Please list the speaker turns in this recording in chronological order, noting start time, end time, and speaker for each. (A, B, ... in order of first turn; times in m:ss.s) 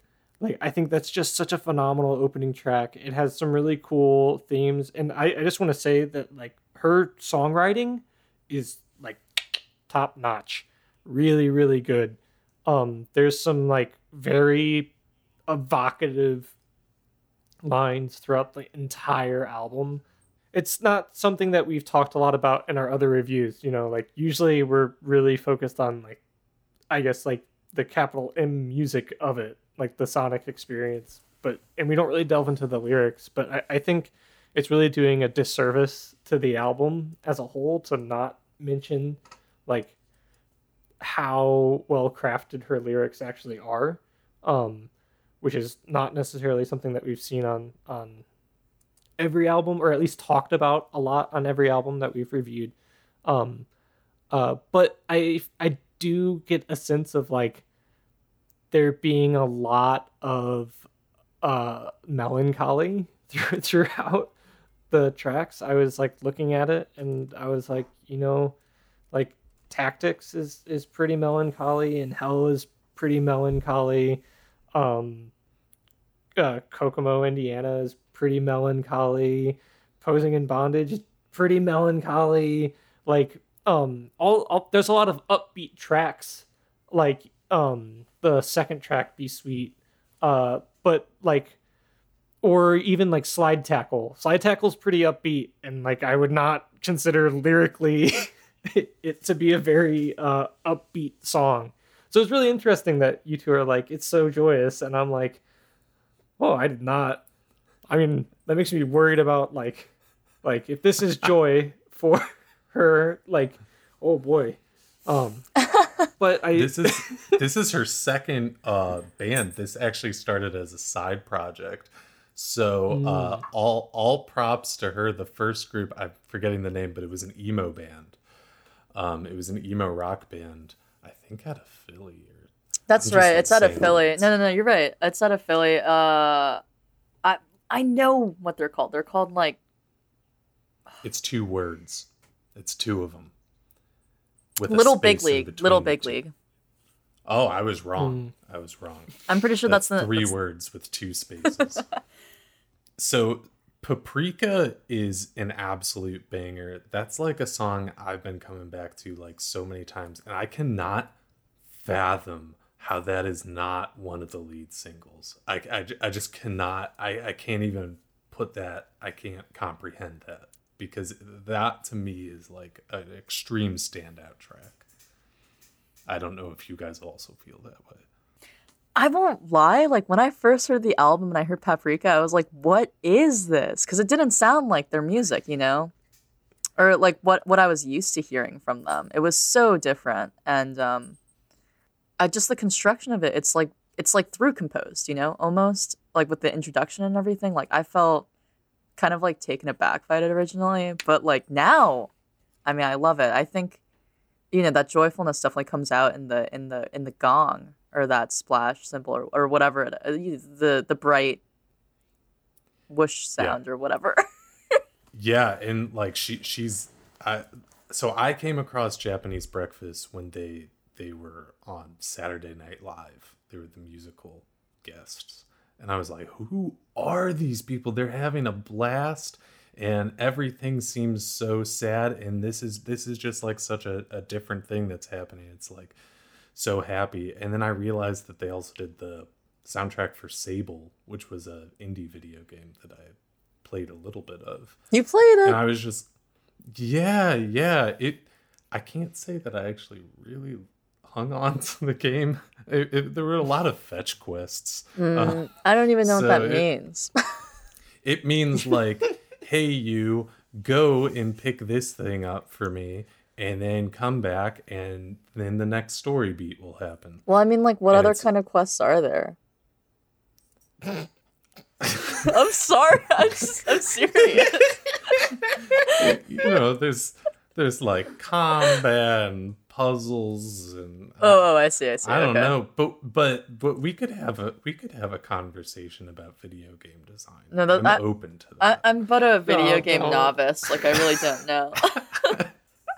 0:00.4-0:14.9 A
0:15.5-0:16.5 A
0:17.6-0:26.2 A
0:26.9-0:39.9 A
0:41.0-0:44.9 A
0:45.4-0:48.2 A
0:49.2-0:53.6 A
0:54.3-0:57.6 A
0:58.7-1:00.8 A
1:01.4-1:04.3 A
1:04.9-1:08.5 A
1:09.1-1:14.2 A
1:14.7-1:15.3 A
1:16.4-1:31.6 A
1:32.4-1:45.4 A
1:46.4-1:47.2 A
1:47.9-1:49.9 A
1:50.4-1:55.5 A
1:56.2-1:57.4 A
1:56.5-2:08.2 B
2:02.9-2:03.4 A
2:08.9-2:14.3 B
2:12.9-2:16.6 C
2:17.2-2:19.6 C
2:21.0-2:23.3 B
2:24.6-2:26.2 B
2:24.7-2:26.3 C
2:27.2-2:31.9 B
2:28.0-2:28.3 A
2:29.3-2:30.3 C
2:33.0-2:41.1 B
2:41.7-2:54.8 B
2:56.1-2:58.0 B
2:59.0-3:05.9 C
3:06.8-3:11.2 C
3:12.2-3:18.3 C
3:19.0-3:22.1 C
3:22.6-3:23.8 C
3:24.5-3:31.4 C
3:32.9-3:34.2 C
3:35.1-3:55.9 B
3:56.5-4:04.8 B
4:04.9-4:05.6 C
4:05.4-4:06.1 B
4:06.7-4:15.4 B
4:15.0-4:17.1 C
4:16.0-4:16.7 B
4:18.0-4:27.2 B
4:27.3-4:29.4 C
4:27.9-4:28.2 B
4:31.8-4:32.1 B
4:32.2-4:36.0 C
4:35.8-4:41.5 B
4:41.2-4:42.5 C
4:42.0-4:48.8 B
4:47.5-4:48.0 C
4:48.6-4:52.4 C
4:49.5-4:50.4 A
4:52.2-4:52.5 B